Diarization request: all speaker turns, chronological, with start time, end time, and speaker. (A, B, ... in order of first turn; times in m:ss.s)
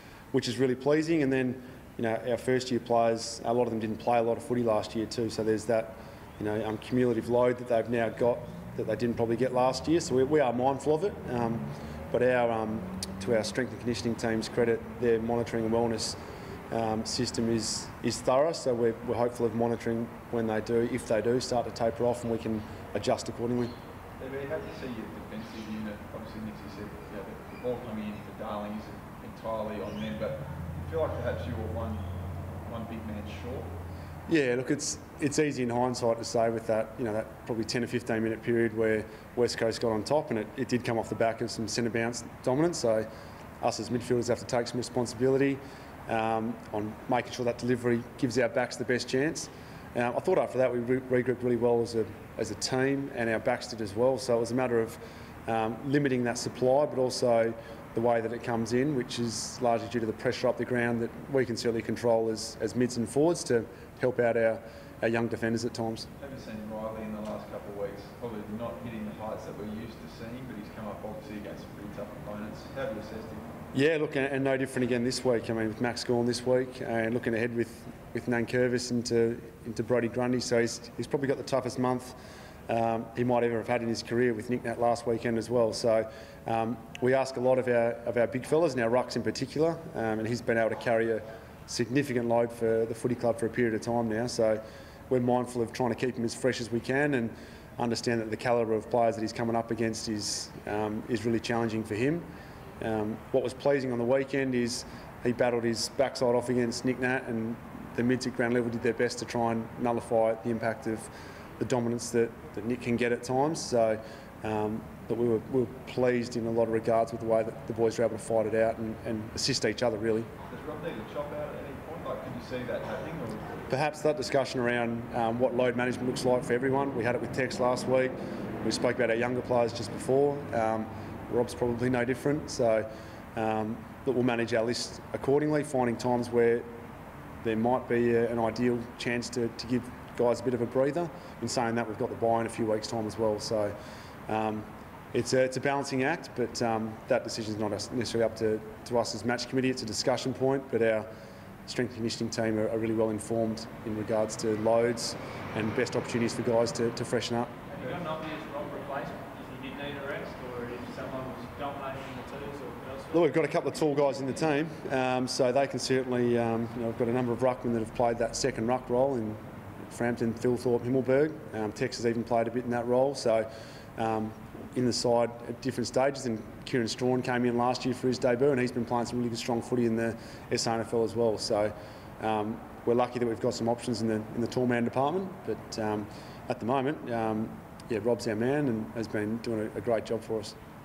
0:00.3-0:16.2 A
0:16.7-0:23.7 A
0:24.2-0:32.0 B
0:32.6-0:33.7 B
0:34.3-0:43.1 A
0:43.6-1:06.1 A
1:06.2-1:13.5 B
1:13.7-1:22.2 A
1:22.7-1:42.2 A
1:42.8-1:51.1 A
1:51.6-2:00.3 A
2:00.5-2:03.6 B
2:03.7-2:16.7 A
2:17.4-2:23.7 A
2:24.3-2:31.1 A
2:31.7-2:37.5 A
2:37.7-2:43.3 C
2:43.1-3:10.5 A